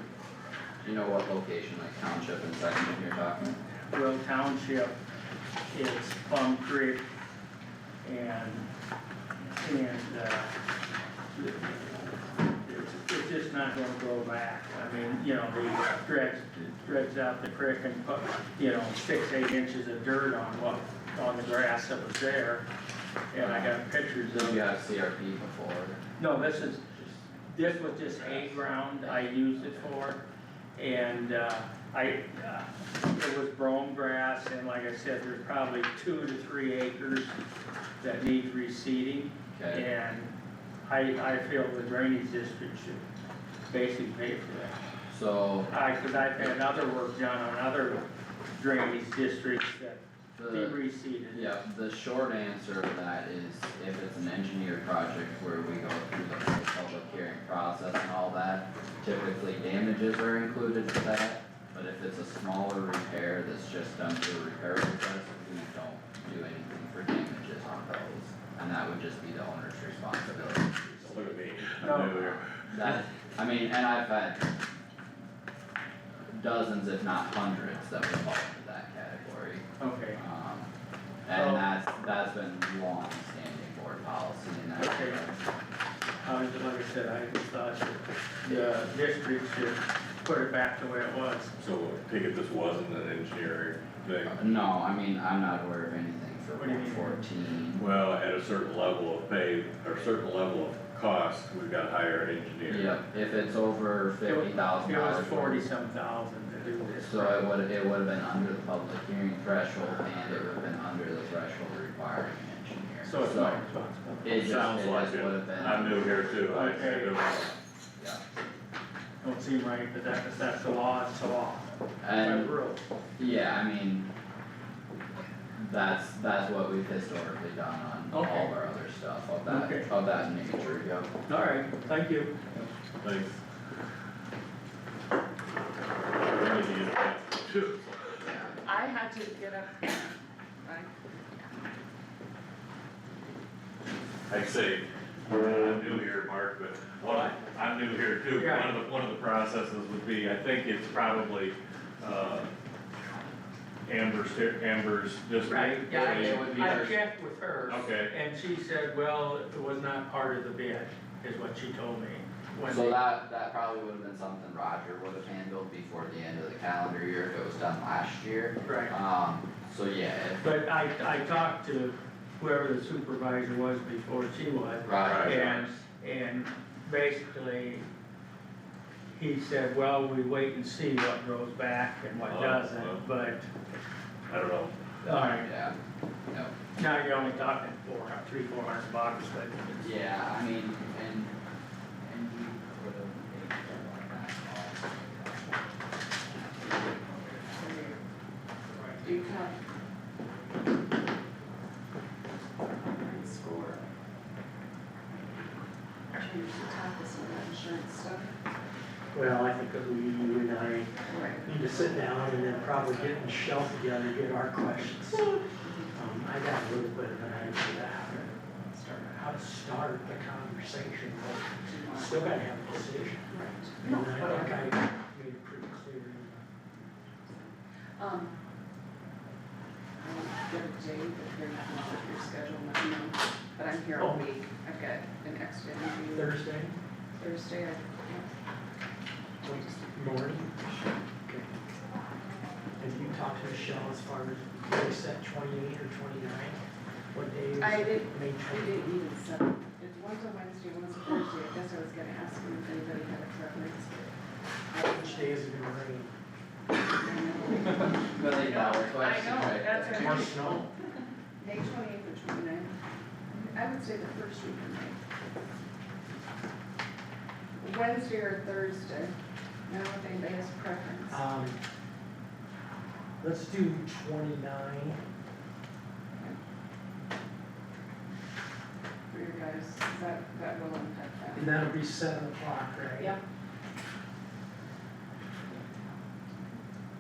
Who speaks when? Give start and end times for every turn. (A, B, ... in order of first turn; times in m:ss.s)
0:00.8-0:03.6 A
0:03.9-0:05.0 B
0:05.7-0:07.0 B
0:08.0-0:08.7 B
0:09.6-0:10.5 B
0:11.4-0:22.7 B
0:23.3-0:24.6 B
0:23.4-0:26.0 A
0:26.2-0:26.9 B
0:27.5-0:30.2 B
0:27.9-0:29.9 A
0:30.8-0:37.4 B
0:38.0-0:40.3 B
0:39.5-0:39.9 A
0:40.9-0:43.0 B
0:43.7-0:44.8 B
0:45.1-0:45.7 A
0:45.7-0:51.5 B
0:46.4-0:46.8 A
0:50.4-1:11.3 A
1:11.0-1:12.8 C
1:11.8-1:12.4 B
1:12.1-1:14.4 A
1:16.3-1:20.7 A
1:19.8-1:20.2 B
1:21.3-1:25.4 A
1:21.3-1:21.6 B
1:24.8-1:25.2 B
1:26.2-1:31.5 B
1:28.5-1:28.9 A
1:31.6-1:34.4 C
1:34.3-1:37.8 A
1:36.6-1:37.2 B
1:37.8-1:43.0 C
1:42.6-1:45.6 A
1:44.3-1:47.4 B
1:47.0-1:53.6 A
1:53.0-1:54.5 B
1:54.2-1:56.2 A
1:54.4-1:57.6 C
1:56.5-1:57.2 B
1:59.2-2:02.8 B
2:02.0-2:02.6 A
2:03.2-2:04.1 A
2:05.6-2:11.1 A
2:08.1-2:08.5 B
2:09.5-2:09.9 B
2:11.3-2:12.7 B
2:13.0-2:13.4 C
2:16.2-2:18.5 C
2:18.2-2:18.5 A
2:18.6-2:20.9 D
2:24.3-2:32.5 C
2:28.3-2:28.7 B
2:33.9-2:36.9 C
2:35.5-2:43.0 B
2:35.9-2:37.0 A
2:37.7-2:38.1 C
2:42.7-2:50.4 A
2:48.6-2:48.9 B
2:50.4-2:57.9 B
2:54.8-2:55.8 A
2:55.0-2:55.4 C
2:59.1-3:03.5 B
3:02.2-3:03.0 C
3:04.3-3:04.8 C
3:05.0-3:05.5 B
3:05.1-3:05.8 A
3:06.3-3:06.5 A
3:06.8-3:10.1 B
3:09.8-3:11.4 A
3:12.0-3:15.6 A
3:17.5-3:18.0 D
3:19.0-3:19.6 D
3:22.8-3:23.9 D
3:26.1-3:28.4 D
3:29.1-3:30.9 E
3:31.1-3:31.5 D
3:31.4-3:35.4 E
3:35.9-3:38.3 E
3:38.1-3:39.3 D
3:39.2-3:46.5 E
3:41.7-3:42.5 D
3:43.3-3:44.7 D
3:46.9-3:48.4 D
3:50.0-3:56.3 D
3:54.0-3:54.2 E
3:56.1-3:56.8 E
3:57.2-3:58.3 D
3:59.4-4:00.6 E
3:59.6-3:59.8 D
4:00.7-4:00.9 D
4:02.8-4:06.6 E
4:07.1-4:09.0 E
4:07.6-4:14.2 D
4:14.7-4:16.1 E
4:14.8-4:15.3 D
4:16.9-4:20.6 D
4:17.7-4:20.3 A
4:19.9-4:20.7 E
4:21.4-4:22.7 D
4:23.3-4:25.0 D
4:27.6-4:31.2 D
4:31.1-4:31.6 E
4:33.2-4:35.0 E
4:36.1-4:36.4 D
4:39.1-4:41.5 D
4:41.3-4:43.2 E
4:45.5-4:46.0 D